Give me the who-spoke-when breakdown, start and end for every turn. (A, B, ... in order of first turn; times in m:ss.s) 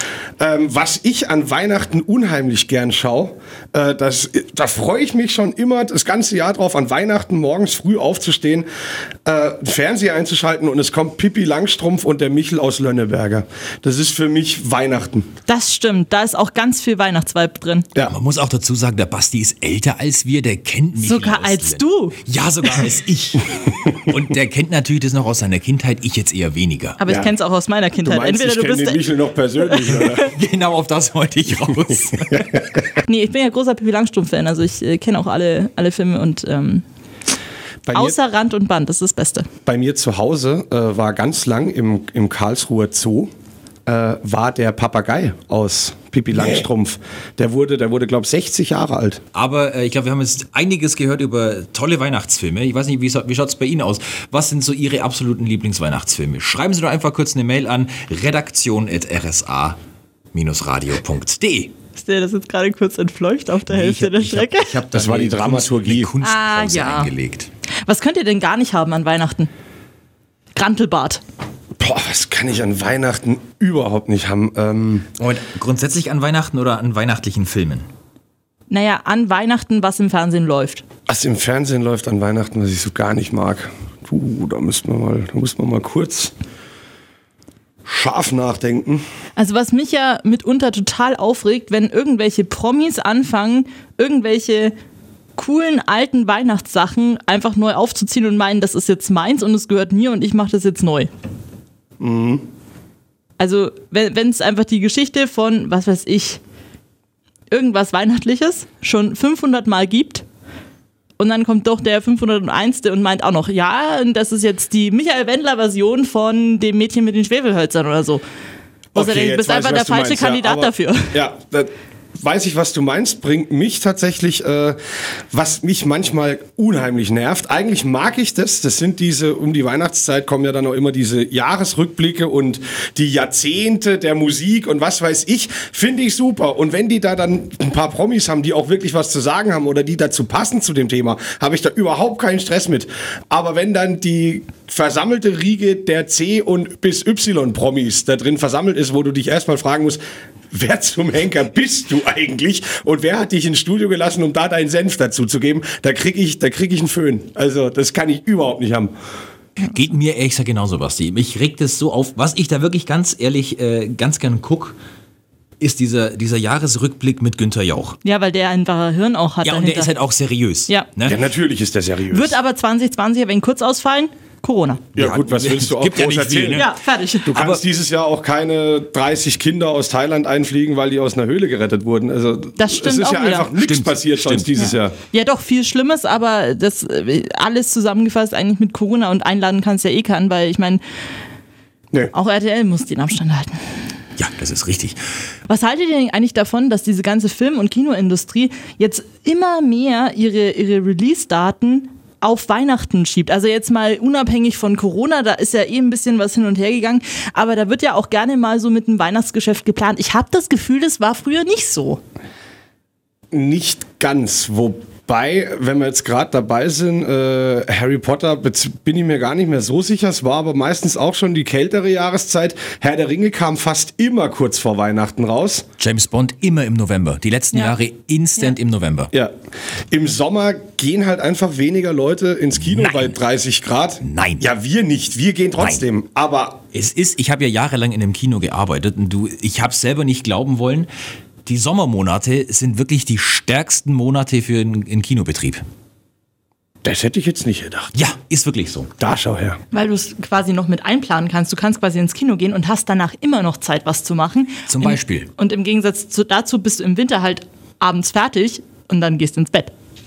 0:00.4-0:08.6 A
0:09.2-0:15.3 A
0:15.5-0:17.9 B
0:18.1-0:27.0 C
0:21.0-0:22.2 B
0:27.0-0:29.0 B
0:27.0-0:27.3 A
0:28.0-0:30.2 A
0:29.6-0:30.1 B
0:30.2-0:32.6 C
0:33.0-0:36.8 B
0:37.8-0:38.2 A
0:37.9-0:39.5 B
0:39.6-0:43.3 A
0:43.8-0:49.2 A
0:49.3-0:59.8 C
1:00.3-1:01.7 C
1:02.0-1:04.7 B
1:03.7-1:07.5 C
1:04.9-1:06.1 A
1:06.2-1:07.1 B
1:07.8-1:09.5 B
1:10.5-1:11.2 B
1:11.8-1:15.1 A
1:15.2-1:17.8 C
1:18.7-1:20.8 B
1:21.1-1:26.3 A
1:27.8-1:29.0 A
1:29.4-1:34.7 B
1:35.4-1:41.1 B
1:42.0-1:42.4 A
1:43.4-1:46.4 B
1:47.5-1:50.2 B
1:51.2-1:58.2 B
1:58.9-2:04.8 A
1:58.9-2:01.2 B
2:05.3-2:30.0 A
2:30.5-2:38.9 A
2:39.6-2:44.8 C
2:45.6-2:48.0 C
2:48.0-2:49.9 B
2:49.4-2:51.2 C
2:51.0-2:52.4 A
2:52.1-2:54.8 B
2:55.0-2:56.6 A
2:55.0-2:56.7 C
2:56.5-2:57.3 B
2:57.2-2:57.6 C
2:57.3-3:05.0 A
3:02.6-3:03.5 B
3:03.5-3:04.6 C
3:04.6-3:10.8 B
3:12.1-3:13.6 B
3:14.2-3:15.0 C
3:15.5-3:32.0 B
3:33.3-3:45.6 A
3:45.8-3:49.1 C
3:49.9-3:56.6 A
3:52.6-3:53.2 C
3:54.0-3:54.4 C
3:55.6-3:55.8 C
3:56.7-4:00.9 C
4:01.4-4:05.6 C
4:06.8-4:07.9 A
4:07.9-4:08.9 C
4:09.0-4:09.6 A
4:09.7-4:19.7 B
4:14.7-4:15.3 C